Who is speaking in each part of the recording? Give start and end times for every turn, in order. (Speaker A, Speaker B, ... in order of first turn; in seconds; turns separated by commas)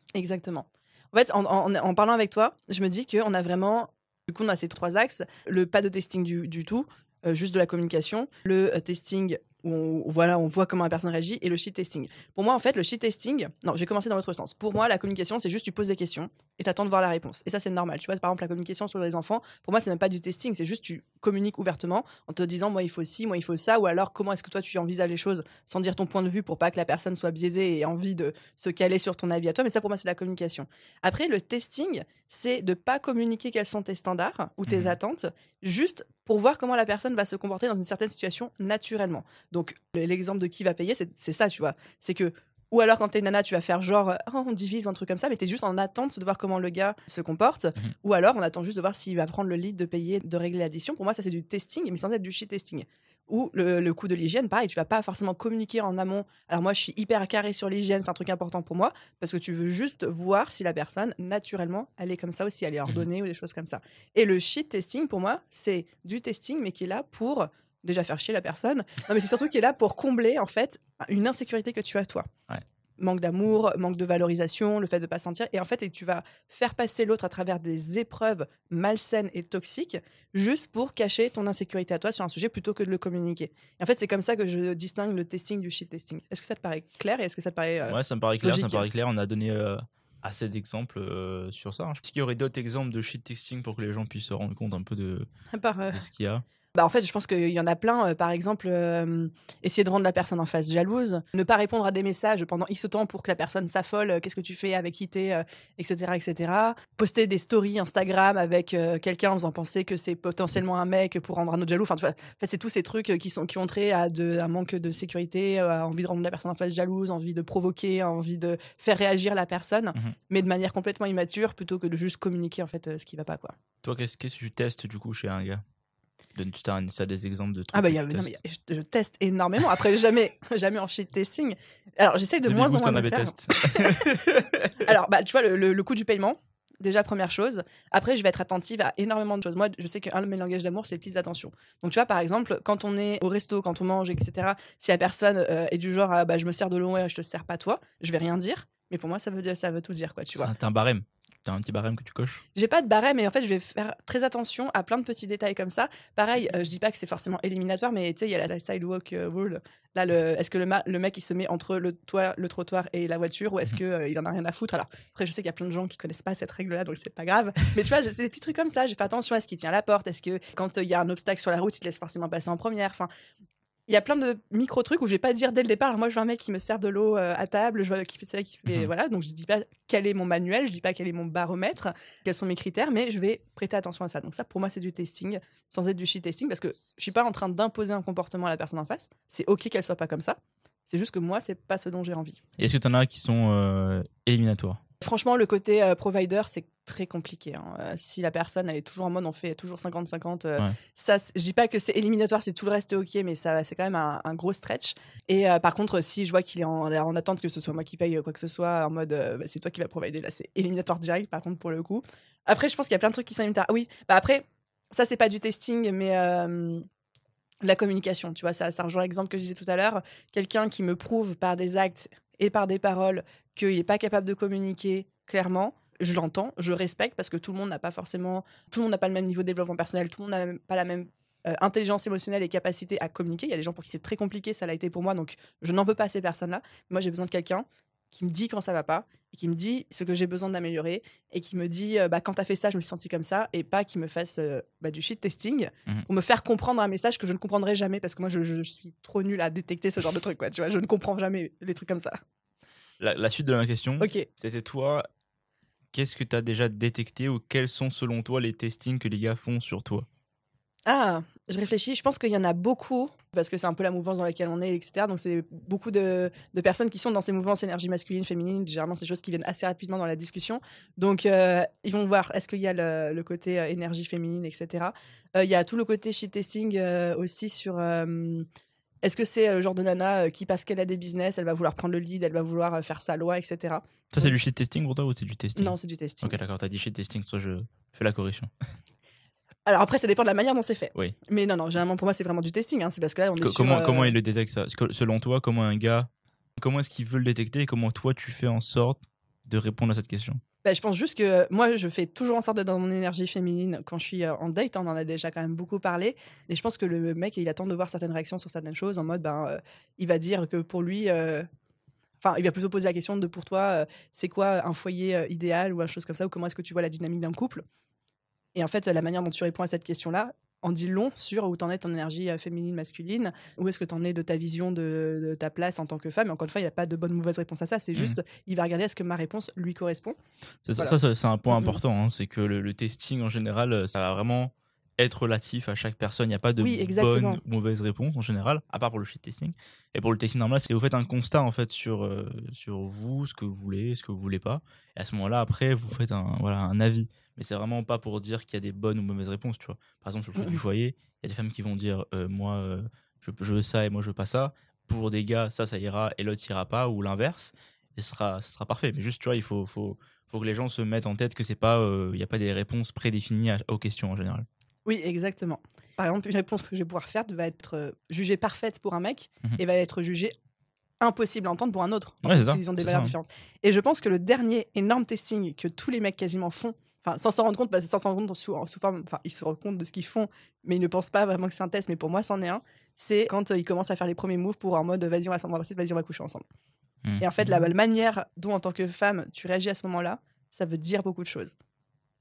Speaker A: 0.2-72.3, Speaker B: 34.7-35.0, Speaker A: 73.0-88.9, Speaker B: 87.9-95.3, Speaker A: 95.5-96.0, Speaker B: 95.9-96.4, Speaker A: 96.8-123.5, Speaker B: 123.8-125.6, Speaker B: 126.3-128.4, Speaker A: 127.7-134.2, Speaker B: 132.4-134.8, Speaker A: 134.8-150.5, Speaker B: 150.4-152.4, Speaker A: 152.6-173.1, Speaker A: 173.9-192.4, Speaker B: 192.6-194.8, Speaker A: 195.0-216.9, Speaker A: 217.6-252.2, Speaker B: 253.0-255.1, Speaker A: 254.0-254.3, Speaker B: 255.9-260.1, Speaker A: 260.9-278.5, Speaker A: 279.0-284.4, Speaker B: 284.1-288.5, Speaker A: 285.6-286.3, Speaker A: 289.7-294.2, Speaker B: 293.4-300.4, Speaker A: 300.6-311.5, Speaker A: 312.2-317.6, Speaker A: 318.6-330.2, Speaker B: 327.9-328.2, Speaker B: 330.7-364.5, Speaker A: 331.5-331.8, Speaker A: 336.6-337.4, Speaker A: 350.4-350.6, Speaker A: 364.9-370.3, Speaker A: 371.0-386.4, Speaker B: 372.2-373.1, Speaker B: 387.0-387.5, Speaker A: 387.2-391.5